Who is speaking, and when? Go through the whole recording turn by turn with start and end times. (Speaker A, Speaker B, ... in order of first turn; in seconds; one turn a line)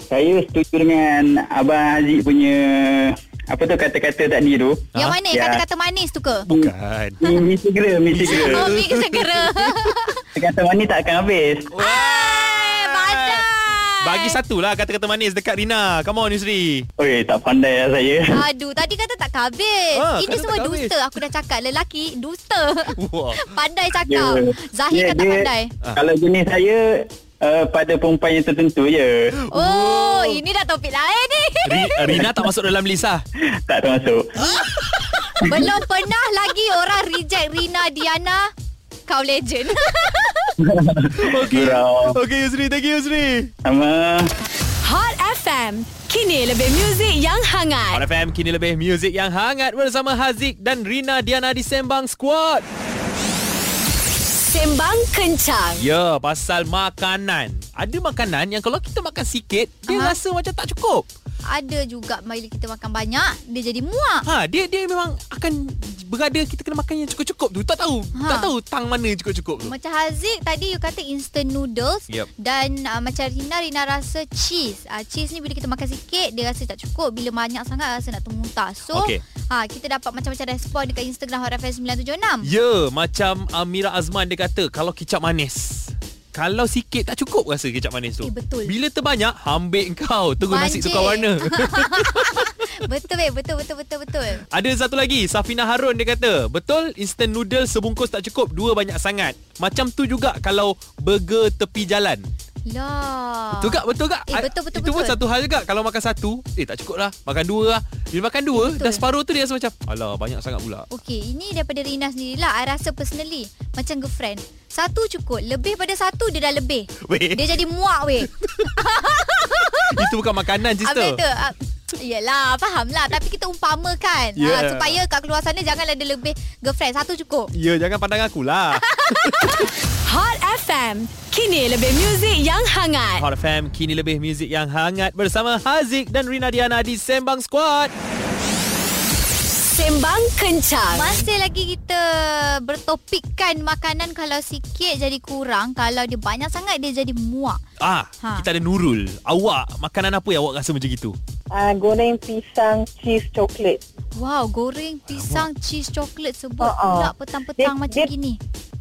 Speaker A: 0.1-5.6
Speaker B: 5.0-6.5
Speaker C: 6.5-7.2
Speaker A: 6.5-8.7
Speaker C: 8.2-9.9
Speaker B: 8.3-10.2
Speaker A: 10.3-11.7
Speaker C: 11.7-13.5
Speaker B: 11.8-14.4
Speaker C: 14.0-16.9
Speaker A: 17.0-18.4
Speaker B: 18.3-25.7
Speaker C: 19.9-20.9
Speaker C: 22.9-23.5
Speaker A: 24.1-29.4
Speaker C: 29.5-30.4
Speaker B: 29.5-32.2
Speaker C: 31.6-33.2
Speaker A: 32.1-32.5
Speaker A: 33.5-34.3
Speaker C: 34.6-35.0
Speaker B: 35.4-38.5
Speaker A: 35.4-35.7
Speaker B: 39.1-40.6
Speaker A: 40.6-42.2
Speaker C: 41.3-43.5
Speaker A: 43.6-44.3
Speaker D: 44.8-48.0
Speaker C: 47.9-52.6
Speaker D: 54.5-55.9
Speaker C: 55.8-61.0
Speaker B: 59.9-60.2
Speaker B: 61.5-64.3
Speaker C: 64.3-69.7
Speaker B: 68.2-68.5
Speaker B: 69.6-82.5
Speaker C: 78.9-79.2
Speaker C: 82.4-92.5
Speaker B: 88.2-88.7
Speaker B: 90.5-94.4
Speaker C: 94.5-102.3
Speaker B: 102.7-105.2
Speaker C: 103.5-110.9
Speaker B: 108.5-109.0
Speaker B: 110.9-120.1
Speaker C: 117.0-117.4
Speaker C: 118.3-118.7
Speaker C: 119.9-121.2
Speaker B: 120.8-127.5
Speaker C: 124.4-125.0
Speaker C: 127.5-129.7
Speaker B: 128.7-129.7
Speaker D: 130.0-133.3
Speaker C: 133.2-137.9
Speaker D: 139.7-141.3
Speaker B: 140.9-147.6
Speaker C: 147.8-151.2
Speaker B: 148.2-148.5
Speaker E: 151.5-153.8
Speaker B: 154.2-158.4
Speaker C: 155.1-155.5
Speaker E: 156.6-158.1